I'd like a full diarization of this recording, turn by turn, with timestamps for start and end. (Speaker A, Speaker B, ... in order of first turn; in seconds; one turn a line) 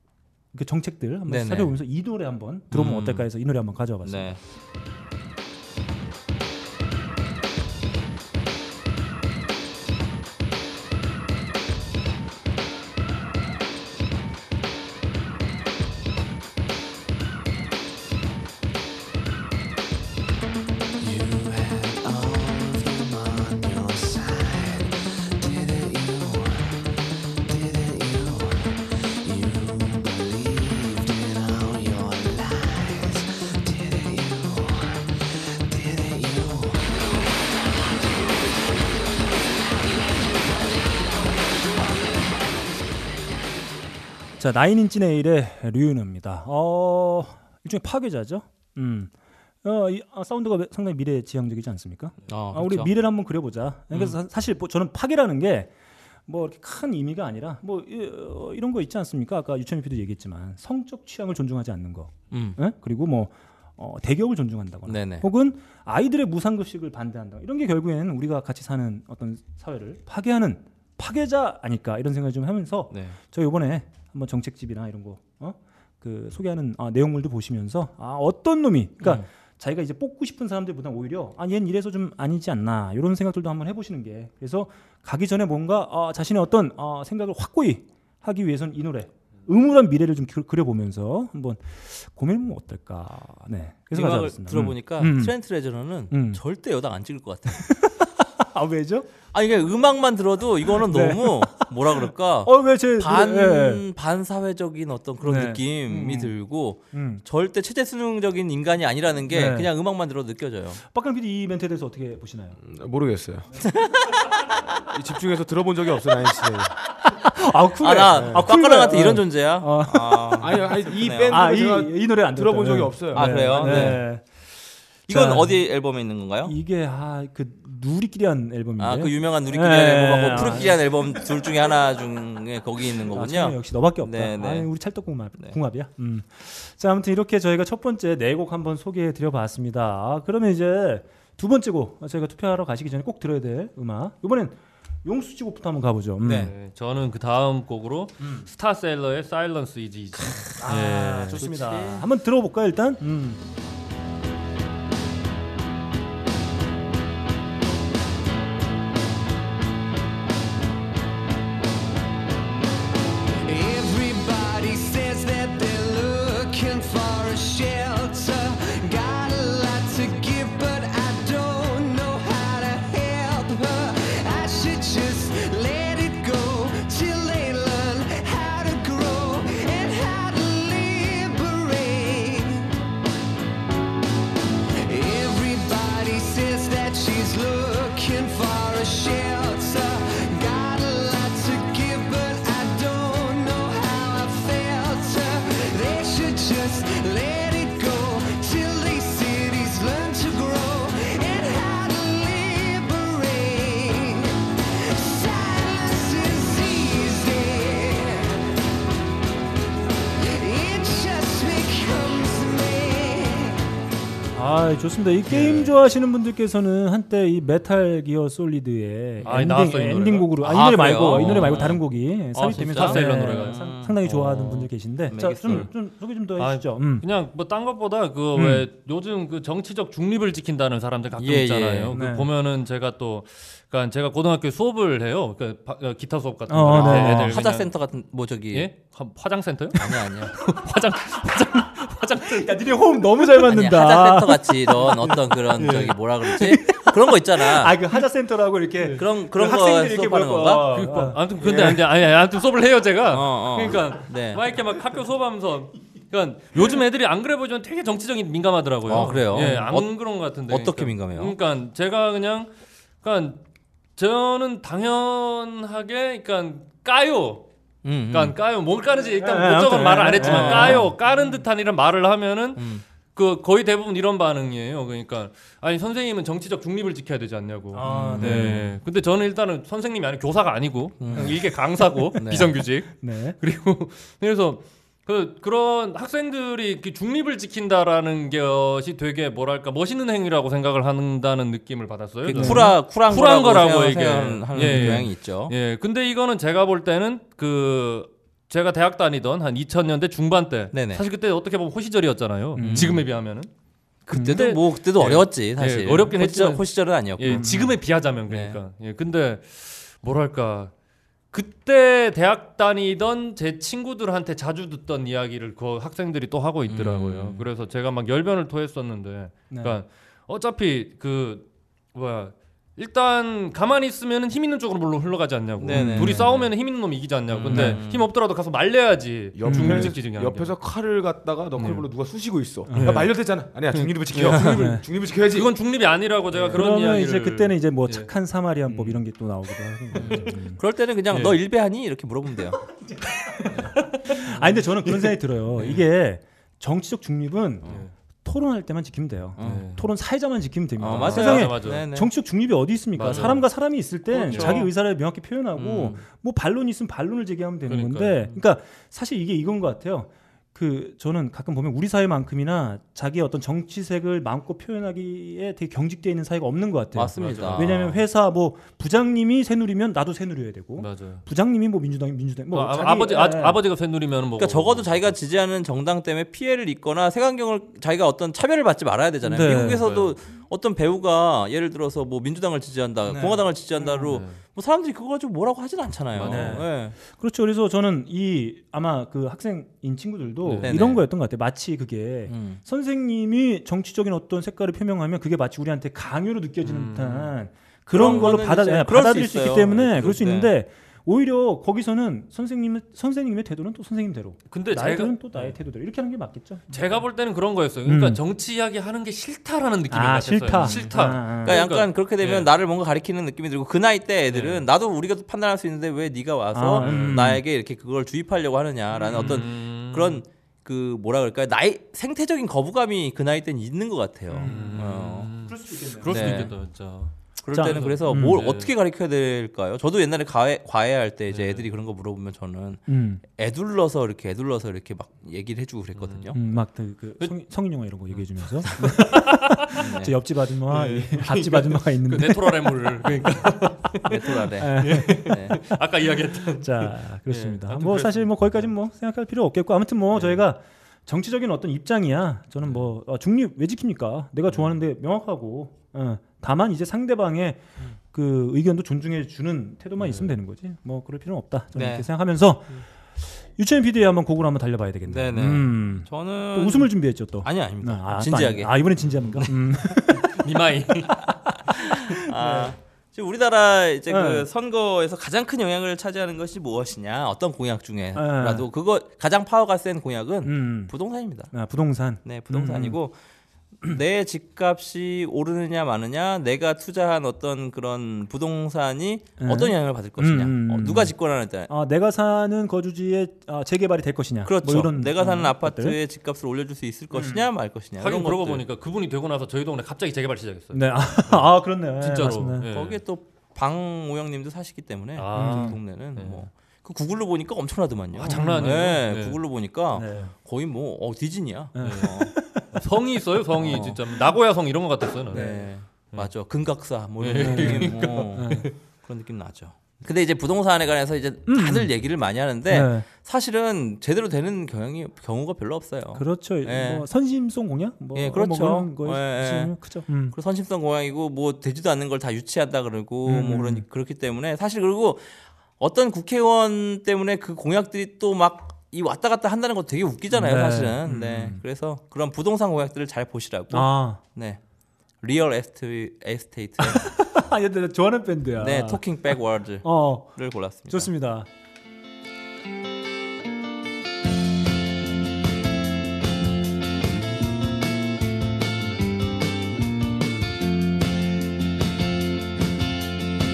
Speaker A: 0.5-4.4
Speaker B: 1.3-1.8
Speaker B: 2.7-3.3
Speaker B: 4.0-4.4
Speaker C: 21.0-37.2
Speaker A: 44.4-55.7
Speaker B: 52.3-52.9
Speaker A: 56.3-95.4
Speaker B: 62.3-62.6
Speaker B: 64.8-65.3
Speaker B: 72.9-73.2
Speaker B: 79.0-79.3
Speaker B: 93.9-97.7
Speaker A: 96.1-96.4
Speaker A: 97.5-99.1
Speaker B: 99.3-110.8
Speaker A: 100.7-103.8
Speaker A: 105.2-107.2
Speaker A: 109.3-109.7
Speaker A: 110.8-112.6
Speaker D: 112.6-113.5
Speaker B: 113.6-114.2
Speaker D: 114.8-116.7
Speaker A: 117.1-120.6
Speaker B: 117.8-121.4
Speaker D: 118.1-118.5
Speaker D: 120.4-124.0
Speaker A: 121.3-124.2
Speaker B: 123.1-124.0
Speaker A: 125.1-125.6
Speaker B: 125.1-126.5
Speaker A: 126.4-131.2
Speaker B: 128.8-134.7
Speaker A: 133.0-146.5
Speaker B: 146.2-146.5
Speaker E: 146.3-151.4
Speaker A: 148.2-148.5
Speaker A: 150.6-153.4
Speaker B: 151.3-152.0
Speaker C: 163.5-172.7
Speaker C: 185.2-186.5
Speaker C: 187.8-189.8
Speaker C: 190.4-195.1
Speaker C: 195.8-196.4
Speaker C: 197.0-201.1
Speaker A: 214.3-227.1
Speaker E: 219.2-221.8
Speaker B: 220.4-224.0
Speaker E: 222.6-224.7
Speaker B: 225.1-225.7
Speaker E: 226.4-237.7
Speaker A: 228.3-228.7
Speaker B: 231.2-231.9
Speaker A: 231.9-232.3
Speaker A: 236.5-237.4
Speaker B: 236.7-238.7
Speaker E: 238.5-242.5
Speaker B: 239.7-240.3
Speaker A: 242.2-245.3
Speaker B: 243.4-247.8
Speaker E: 245.0-246.5
Speaker A: 246.3-251.7
Speaker B: 248.9-250.7
Speaker E: 250.7-263.4
Speaker B: 253.1-254.4
Speaker B: 258.9-261.4
Speaker A: 259.0-259.6
Speaker E: 263.9-267.5
Speaker B: 267.8-268.4
Speaker E: 268.1-303.5
Speaker A: 269.1-271.0
Speaker B: 270.2-270.9
Speaker B: 272.6-272.8
Speaker A: 277.7-278.8
Speaker B: 277.8-278.5
Speaker B: 281.0-281.4
Speaker A: 281.1-281.4
Speaker B: 282.2-282.5
Speaker A: 283.0-283.4
Speaker B: 292.2-295.5
Speaker A: 292.3-292.8
Speaker A: 294.6-295.1
Speaker B: 300.7-301.0
Speaker A: 302.5-303.1
Speaker B: 302.6-303.0
Speaker B: 304.1-307.5
Speaker A: 304.1-304.4
Speaker E: 304.1-310.7
Speaker A: 307.3-307.8
Speaker B: 308.3-308.6
Speaker E: 311.3-330.5
Speaker B: 316.7-317.4
Speaker A: 319.5-319.8
Speaker B: 325.6-326.4
Speaker A: 325.7-326.4
Speaker B: 327.3-328.1
Speaker A: 327.5-327.8
Speaker D: 329.3-335.5
Speaker A: 329.4-329.9
Speaker E: 331.6-331.9
Speaker A: 332.7-333.1
Speaker E: 332.8-333.1
Speaker E: 333.7-338.1
Speaker B: 334.3-334.6
Speaker A: 334.5-334.8
Speaker A: 336.5-340.6
Speaker B: 339.9-342.6
Speaker E: 339.9-340.3
Speaker E: 341.1-341.4
Speaker A: 343.0-373.6
Speaker E: 343.4-345.9
Speaker B: 349.4-349.6
Speaker E: 349.4-349.9
Speaker B: 350.8-352.1
Speaker E: 350.9-351.8
Speaker E: 352.9-354.7
Speaker B: 354.3-354.7
Speaker B: 355.6-356.0
Speaker E: 357.7-358.4
Speaker B: 366.9-368.0
Speaker E: 367.2-367.9
Speaker E: 370.8-371.2
Speaker E: 372.5-375.1
Speaker B: 374.4-386.9
Speaker A: 379.2-379.8
Speaker E: 379.4-380.1
Speaker A: 383.1-383.5
Speaker E: 383.8-384.4
Speaker E: 386.1-386.6
Speaker A: 386.2-406.9
Speaker E: 390.4-390.8
Speaker B: 390.6-391.0
Speaker B: 392.3-392.6
Speaker E: 396.6-397.3
Speaker B: 397.9-400.5
Speaker E: 404.5-405.5
Speaker E: 406.7-412.5
Speaker A: 407.8-408.2
Speaker A: 409.9-411.6
Speaker B: 410.6-425.3
Speaker E: 414.3-414.6
Speaker A: 416.5-417.4
Speaker E: 416.8-417.3
Speaker E: 418.9-420.2
Speaker A: 424.3-426.5
Speaker E: 424.4-428.7
Speaker B: 426.1-426.5
Speaker B: 427.4-436.4
Speaker A: 427.5-428.4
Speaker E: 431.3-431.7
Speaker A: 432.9-433.2
Speaker E: 435.9-436.6
Speaker A: 436.3-443.3
Speaker E: 438.8-439.8
Speaker B: 439.7-440.1
Speaker E: 440.7-448.7
Speaker B: 444.0-445.6
Speaker A: 444.6-445.4
Speaker A: 446.5-462.8
Speaker E: 452.6-452.9
Speaker E: 460.0-460.3
Speaker B: 461.7-462.1
Speaker A: 463.6-470.5
Speaker B: 465.1-468.8
Speaker E: 469.1-469.5
Speaker E: 470.2-471.3
Speaker A: 471.3-472.7
Speaker B: 471.7-481.5
Speaker A: 474.1-474.5
Speaker A: 478.1-478.6
Speaker A: 480.4-483.0
Speaker B: 482.2-483.2
Speaker B: 483.8-491.7
Speaker A: 489.4-491.1
Speaker A: 491.7-496.0
Speaker B: 494.4-498.6
Speaker A: 497.1-497.4
Speaker E: 498.0-503.0
Speaker A: 500.7-502.7
Speaker B: 502.6-512.3
Speaker E: 505.2-506.5
Speaker A: 505.3-505.8
Speaker A: 508.2-508.7
Speaker E: 508.2-509.4
Speaker A: 509.9-510.3
Speaker A: 511.7-512.8
Speaker E: 511.8-512.1
Speaker E: 512.7-516.3
Speaker A: 513.6-514.0
Speaker B: 513.6-514.0
Speaker A: 515.3-515.6
Speaker B: 515.3-527.1
Speaker E: 517.2-518.7
Speaker A: 517.4-518.7
Speaker A: 521.5-521.9
Speaker A: 522.6-523.0
Speaker A: 526.1-530.4
Speaker B: 528.1-529.7
Speaker B: 530.3-544.6
Speaker A: 533.2-533.8
Speaker A: 540.3-541.6
Speaker A: 543.7-544.2
Speaker B: 545.2-547.1
Speaker A: 546.8-551.5
Speaker B: 548.6-551.1